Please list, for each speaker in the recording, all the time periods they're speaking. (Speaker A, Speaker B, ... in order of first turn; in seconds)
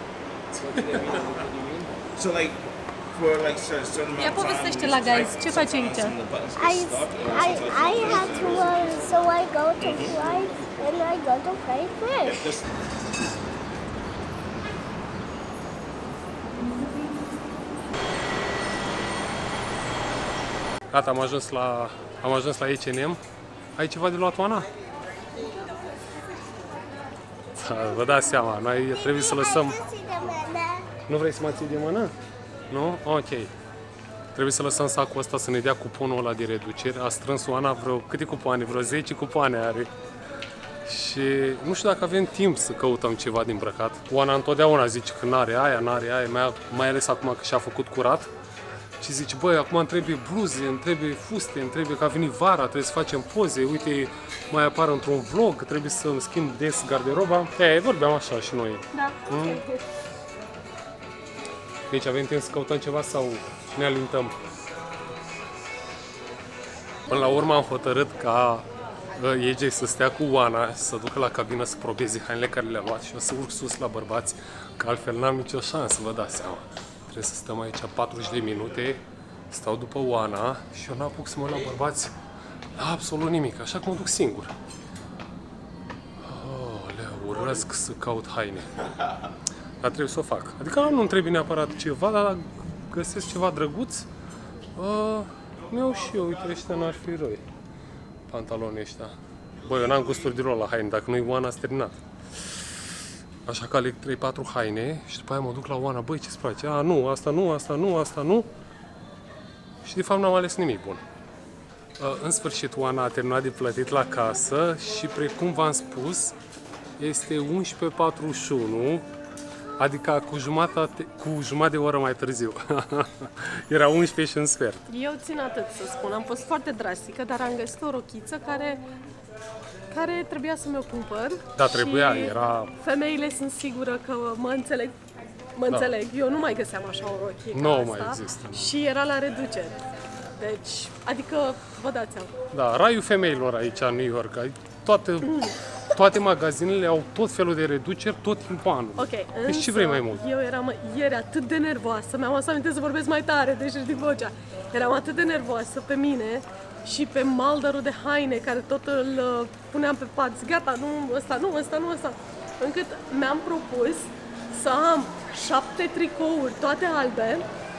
Speaker A: 0.5-10.6, 12.2-12.7
Speaker B: 0.7-1.3, 20.9-23.2, 23.8-24.7, 27.5-29.8, 31.1-32.1, 32.7-33.5, 34.3-39.9, 40.8-48.3, 49.0-59.6, 61.9-64.3, 67.1-82.1, 82.8-84.5, 86.2-88.8, 89.8-94.1, 94.8-97.4, 98.3-102.0, 103.5-108.5, 109.8-111.0, 112.0-116.3, 117.0-119.0, 119.8-124.8, 131.5-132.7, 137.5-138.7, 142.5-150.2
Speaker C: 4.2-6.1, 58.9-59.8, 124.9-128.8, 129.9-135.0, 135.5-139.8, 140.4-142.3, 145.3-145.5, 149.0-167.4
Speaker D: 6.6-12.4, 25.4-25.7, 28.9-30.9